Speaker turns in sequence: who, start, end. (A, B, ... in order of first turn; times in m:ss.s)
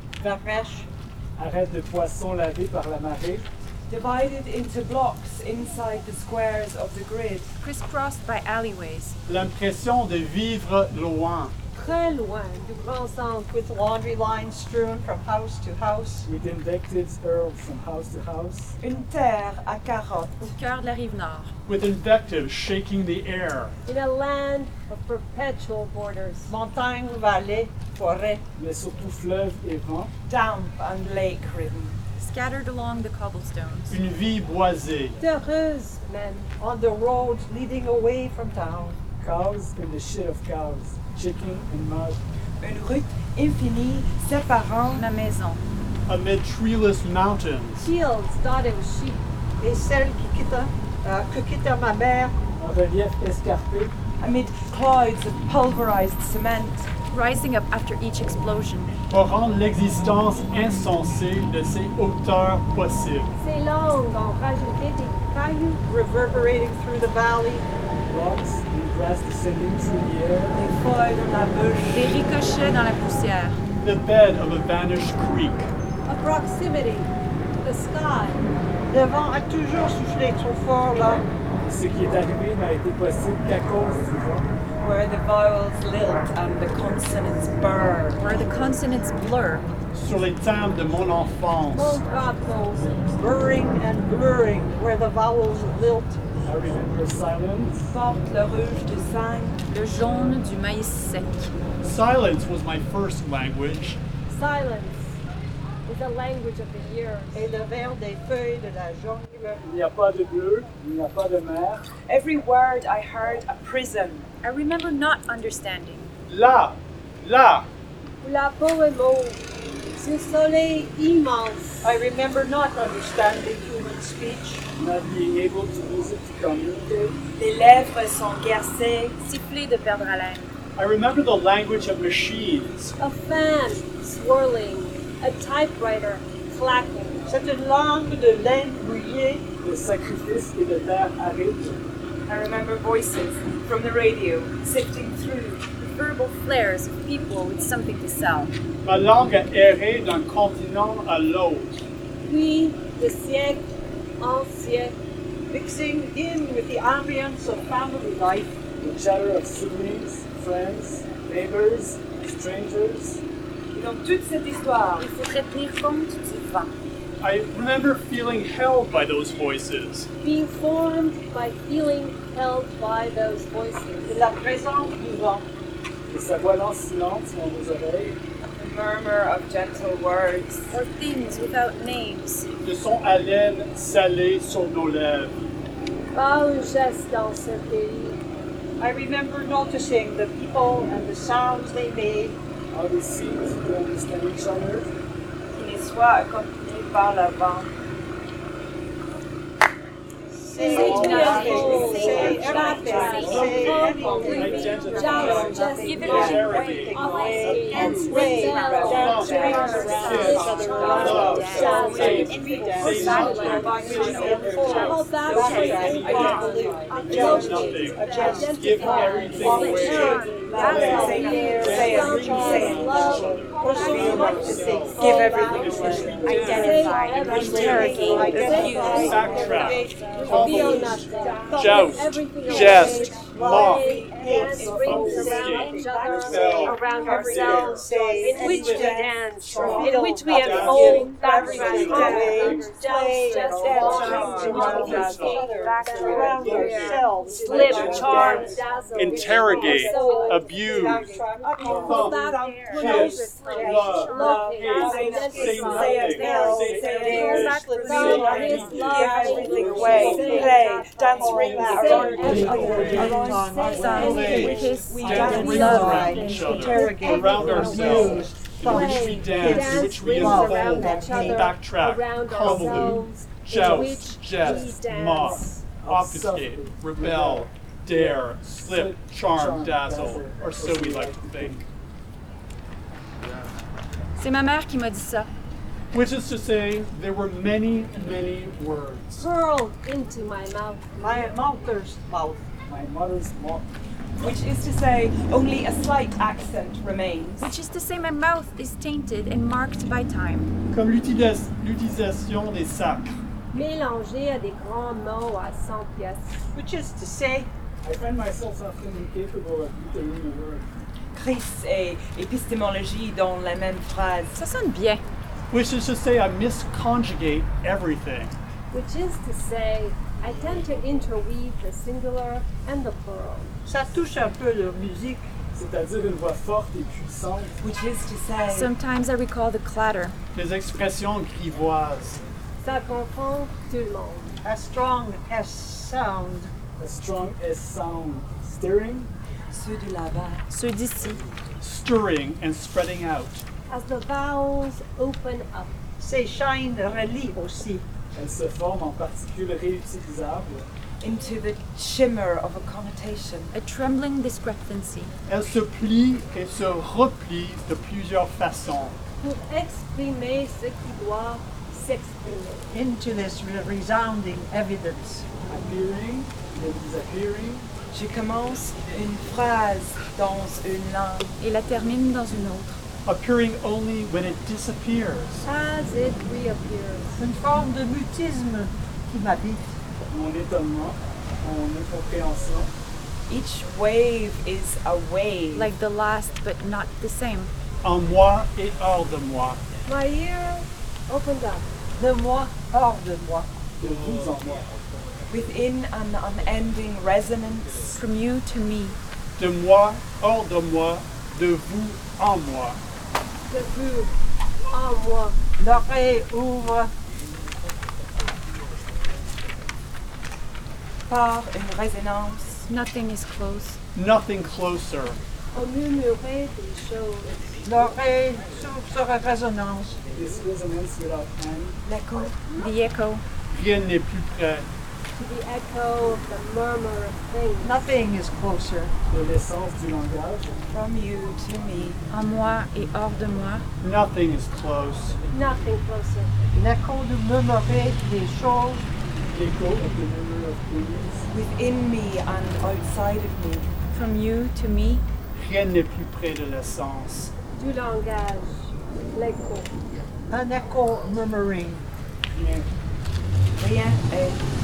0:00.2-0:00.8 A
0:01.4-0:03.5 B
0:03.9-0:07.5 C
0:07.6-0:09.2 D
0:09.3-0:11.5 E
0:11.8-0:13.5 F
0:13.5-0:16.3 A
0:16.2-0:18.7 B
0:18.8-0:20.5 C
0:20.4-0:21.5 D
0:21.7-0:23.7 E
0:23.8-0:26.5 F
0:26.5-0:28.4 A
0:28.6-0:30.1 B
0:30.3-0:32.0 C
0:32.2-0:33.9 D
0:33.9-0:35.2 E
0:35.2-0:36.5 F
0:36.6-0:39.0 A
0:39.2-0:42.2 B
0:42.6-0:45.0 C
0:44.9-0:45.6 D
0:46.1-0:47.8 E
0:47.8-0:49.2 F
0:49.6-0:52.3 A
0:52.6-0:53.9 B
0:54.2-0:56.9 C
0:57.1-0:58.9 D
0:59.1-1:03.3 E
1:03.4-1:05.8 F
1:05.9-1:07.6 A
1:08.1-1:10.6 B
1:10.5-1:12.2 C
1:11.9-1:13.6 D
1:13.8-1:15.7 E
1:16.0-1:18.4 F
1:18.9-1:21.2 A
1:21.7-1:24.5 B
1:24.8-1:28.5 C
1:28.2-1:29.7 D
1:29.9-1:32.0 E
1:31.7-1:32.9 F
1:33.1-1:36.2 A
1:36.4-1:37.9 B
1:37.9-1:39.6 C
1:39.7-1:41.5 D
1:41.8-1:44.0 E
1:44.3-1:45.2 F
1:45.8-1:47.5 F
1:47.3-1:49.6 A
1:49.6-1:51.8 B
1:52.0-1:54.3 C
1:54.4-1:56.1 D
1:56.3-1:57.7 E
1:58.2-1:59.4 F
2:00.0-2:01.9 F
2:01.9-2:04.4 C
2:03.2-2:03.8 A
2:04.8-2:07.2 B
2:07.4-2:09.2 C
2:09.2-2:10.5 D
2:10.8-2:12.9 E
2:13.0-2:17.2 F
2:17.3-2:19.4 A
2:19.6-2:21.8 B
2:22.3-2:25.7 C
2:25.8-2:28.5 D
2:28.8-2:31.8 E
2:32.2-2:33.7 F
2:34.2-2:34.9 F
2:35.5-2:38.5 A
2:38.8-2:43.2 B
2:43.7-2:45.1 C
2:45.0-2:45.3 F
2:45.0-2:46.7 D
2:47.2-2:50.1 E
2:50.2-2:54.2 F
2:54.1-2:54.9 C
2:54.7-2:55.4 A
2:56.1-2:58.2 B
2:58.6-3:00.7 C
3:00.7-3:02.5 D
3:02.6-3:05.4 E
3:06.1-3:08.2 F
3:08.8-3:12.0 C
3:10.9-3:12.3 A
3:12.7-3:14.9 B
3:15.5-3:17.7 C
3:20.4-3:50.8 C
3:20.4-3:24.4 A
3:20.6-4:20.9 F
3:20.7-3:22.4 D
3:23.1-3:33.6 E
3:25.3-3:27.3 D
3:26.8-3:29.7 A
3:29.3-3:36.7 D
3:30.4-3:31.1 A
3:32.5-3:32.8 A
3:33.8-3:34.7 A
3:37.0-3:47.7 E
3:39.5-3:41.6 D
3:41.1-3:42.6 A
3:43.6-3:46.1 A
3:45.3-3:46.4 B
3:46.1-3:49.2 D
3:47.2-3:51.6 A
3:48.9-3:57.9 E
3:51.6-3:51.9 C
3:52.7-3:53.1 C
3:53.3-3:55.0 A
3:53.6-4:08.5 C
3:55.8-3:58.8 A
3:58.4-3:58.9 E
3:59.5-4:00.2 A
3:59.6-4:02.3 D
4:00.3-4:02.6 E
4:01.7-4:05.0 A
4:04.0-4:04.9 D
4:04.6-4:05.5 E
4:06.0-4:08.5 A
4:06.0-4:06.3 D
4:06.2-4:07.0 E
4:08.9-4:11.1 E
4:09.1-4:10.2 A
4:09.4-4:25.8 C
4:11.1-4:12.3 A
4:11.8-4:19.0 E
4:15.9-4:31.4 A
4:19.3-4:20.4 B
4:21.5-4:35.6 F
4:21.8-4:22.5 B
4:21.9-4:23.2 E
4:23.6-4:26.4 D
4:24.0-4:41.6 E
4:27.4-4:28.0 B
4:34.4-4:41.6 B
4:44.2-4:45.3 D
4:45.9-4:49.2 E
4:49.2-4:51.3 F
4:51.0-4:52.4 A
4:52.7-4:53.7 B
4:54.2-4:57.5 C
4:57.4-5:00.5 D
5:00.7-5:03.2 E
5:03.5-5:06.4 F
5:06.6-5:07.5 A
5:07.8-5:10.7 B
5:11.1-5:14.4 C
5:14.3-5:15.0 D
5:15.5-5:18.3 E
5:18.7-5:23.6 F
5:23.6-5:25.3 A
5:25.5-5:27.6 B
5:27.6-5:28.7 C
5:28.4-5:30.2 D
5:30.3-5:32.2 E
5:32.6-5:34.4 F
5:34.4-5:36.5 A
5:36.8-5:39.1 B
5:39.5-5:40.4 C
5:40.5-5:41.2 D
5:41.6-5:43.4 E
5:43.7-5:45.7 F
5:46.0-5:47.8 A
5:48.1-5:50.7 B
5:51.0-5:53.5 C
5:53.5-5:55.1 D
5:55.3-5:59.0 E
5:59.2-6:02.7 F
6:02.7-6:05.2 A
6:05.5-6:07.7 B
6:07.9-6:11.3 C
6:11.4-6:12.8 D
6:13.0-6:15.4 E
6:15.4-6:17.2 F
6:17.2-6:19.7 A
6:20.1-6:22.7 B
6:23.3-6:25.7 C
6:25.5-6:27.5 D
6:27.8-6:29.6 E
6:29.8-6:31.7 F
6:32.0-6:33.6 A
6:33.8-6:34.7 B
6:35.3-6:37.8 C
6:37.9-6:39.0 D
6:39.4-6:42.8 E
6:43.5-6:44.1 F
6:44.7-6:45.4 F
6:45.6-6:46.9 A
6:51.1-6:52.6 C
6:52.6-6:53.8 D
6:53.9-6:55.2 E
6:55.5-6:57.5 F
6:57.6-7:00.0 A
7:00.1-7:01.8 B
7:01.8-7:02.4 C
7:02.6-7:03.2 D
7:03.5-7:04.7 E
7:05.1-7:08.0 F
7:07.6-7:08.9 A
7:09.1-7:10.6 B
7:10.7-7:12.0 C
7:12.1-7:13.6 D
7:13.8-7:15.2 E
7:15.3-7:16.3 F
7:16.5-7:18.8 A
7:19.3-7:19.8 E
7:19.4-7:21.2 B
7:21.3-7:23.7 C
7:23.9-7:25.0 D
7:25.3-7:27.3 E
7:27.6-7:29.7 F
7:30.3-7:31.8 A
7:32.3-7:32.7 B
7:33.6-7:34.4 C